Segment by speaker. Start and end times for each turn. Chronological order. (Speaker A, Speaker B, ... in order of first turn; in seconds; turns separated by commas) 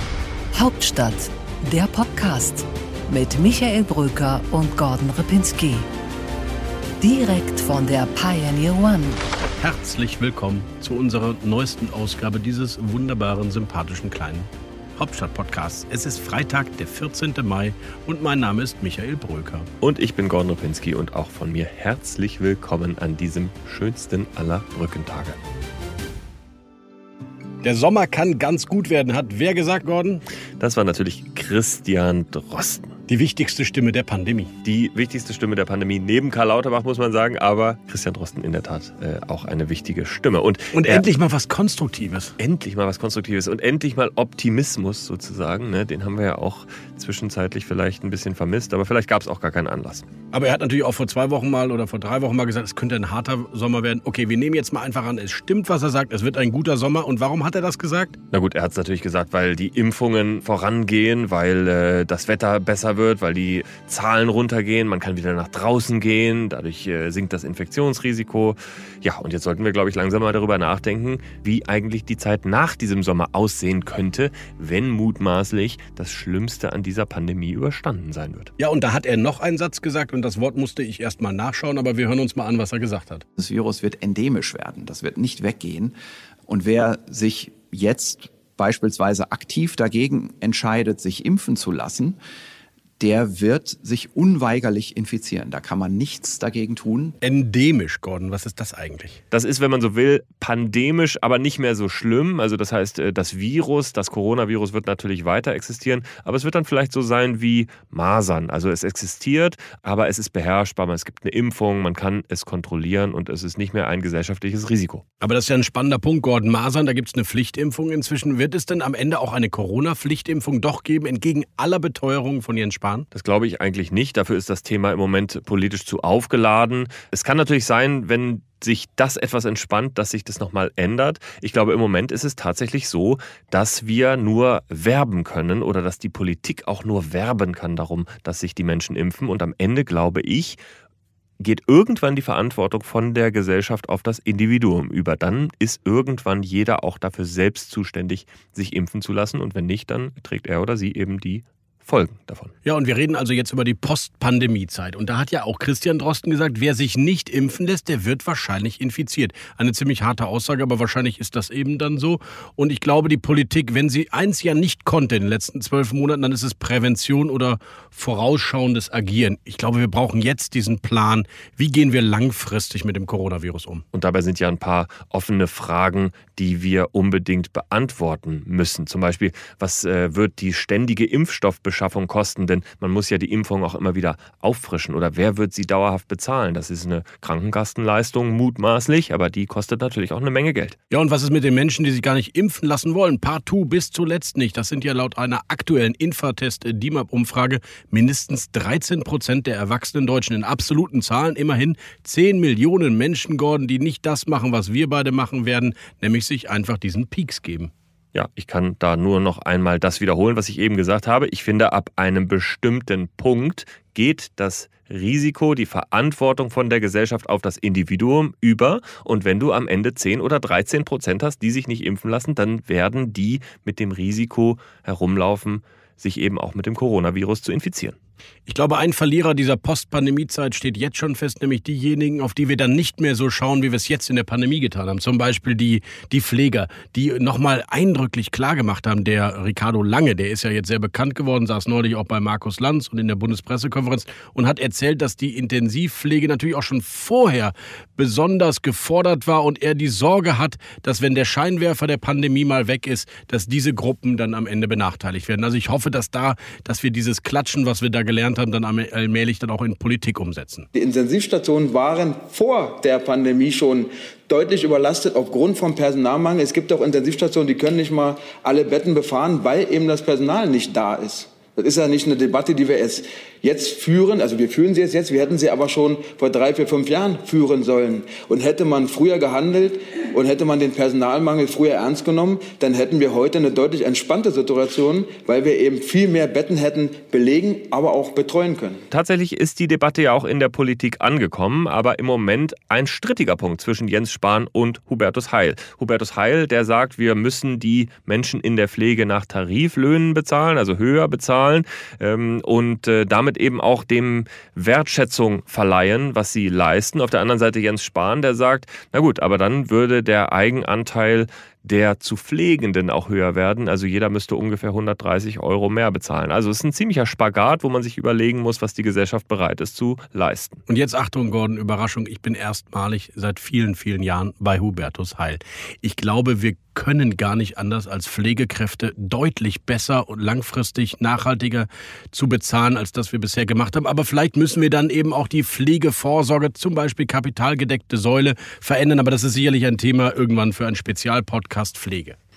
Speaker A: 0.5-5.8, Speaker A: 7.0-9.2, Speaker B: 9.6-19.7, Speaker C: 19.8-25.4, Speaker B: 27.6-30.2, Speaker C: 30.6-32.9, Speaker B: 33.1-34.5, Speaker C: 34.6-41.0, Speaker B: 40.7-42.4, Speaker C: 42.4-50.0, Speaker B: 50.3-58.2, Speaker C: 58.3-78.5, Speaker B: 78.6-83.2, Speaker D: 83.4-85.9, Speaker D: 86.5-92.2, Speaker D: 93.0-97.0, Speaker B: 97.2-99.2, Speaker C: 99.3-115.0, Speaker B: 115.2-123.0, Speaker C: 123.1-140.6, Speaker C: 141.4-152.5, Speaker B: 152.6-173.8, Speaker C: 173.9-190.8, Speaker B: 190.9-207.7, Speaker C: 208.1-227.9, Speaker B: 228.5-260.7, Speaker E: 260.7-288.8, Speaker C: 288.9-320.6, Speaker B: 320.7-342.2